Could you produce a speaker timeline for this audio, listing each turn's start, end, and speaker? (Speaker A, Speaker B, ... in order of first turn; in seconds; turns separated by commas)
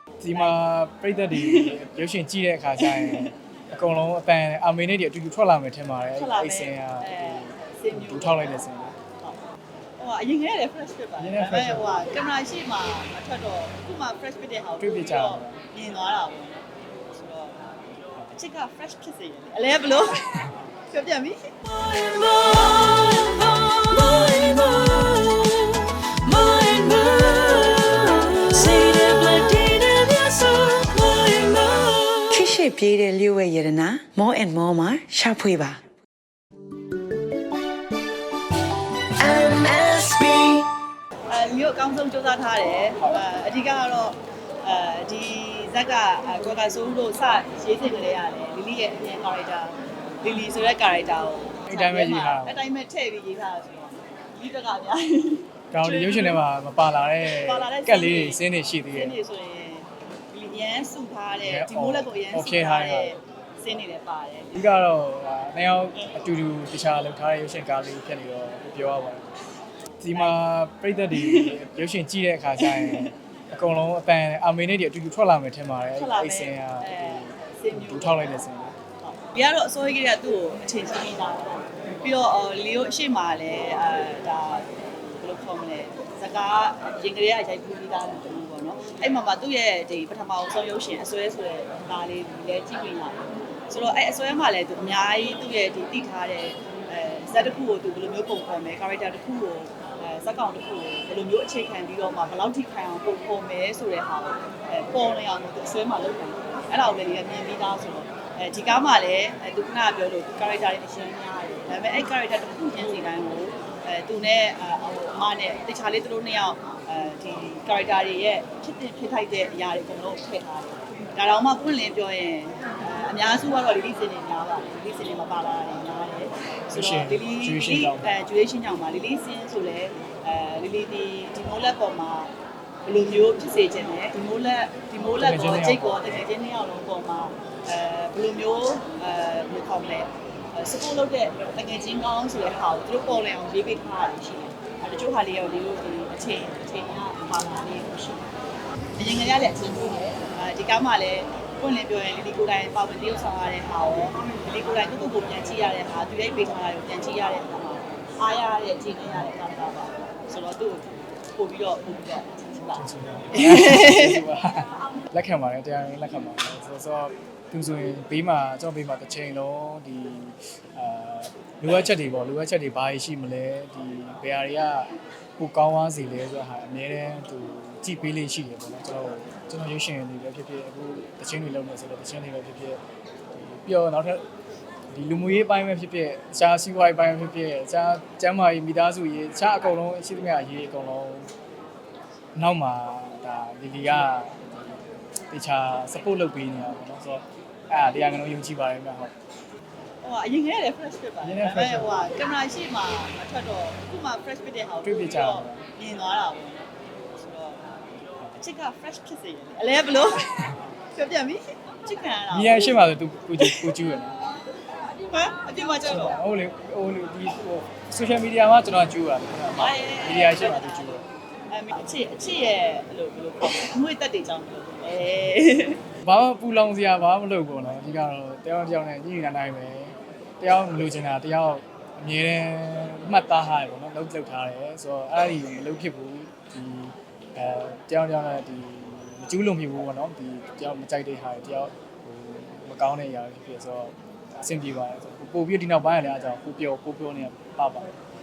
Speaker A: 0.2-0.6, Speaker B: 0.2-9.0, Speaker A: 1.3-1.7, Speaker A: 2.8-3.3, Speaker A: 6.1-9.4, Speaker A: 10.0-17.7, Speaker B: 11.2-11.9, Speaker B: 14.8-15.6, Speaker A: 18.3-20.2, Speaker A: 20.9-21.5, Speaker C: 21.7-35.9, Speaker C: 39.2-40.7, Speaker A: 41.3-56.4, Speaker B: 51.7-52.6, Speaker B: 55.7-59.2, Speaker A: 57.2-58.4, Speaker A: 58.9-64.6, Speaker B: 61.4-63.2, Speaker B: 64.5-69.3, Speaker B: 70.0-78.8, Speaker A: 70.1-70.4, Speaker A: 71.1-71.6, Speaker A: 72.6-73.1, Speaker A: 76.0-132.3, Speaker B: 126.7-128.2, Speaker A: 132.8-148.3, Speaker B: 135.2-136.3, Speaker A: 149.0-164.2, Speaker B: 162.8-182.8, Speaker B: 183.3-184.2, Speaker B: 184.9-191.3, Speaker B: 192.3-194.4, Speaker B: 195.3-199.1, Speaker A: 200.0-207.7, Speaker B: 201.2-202.0, Speaker B: 204.8-205.6, Speaker A: 208.4-210.3, Speaker A: 210.9-212.9, Speaker B: 212.3-214.2, Speaker A: 213.4-213.7, Speaker A: 215.0-216.2, Speaker B: 215.8-221.1, Speaker A: 219.5-225.8, Speaker B: 226.0-247.9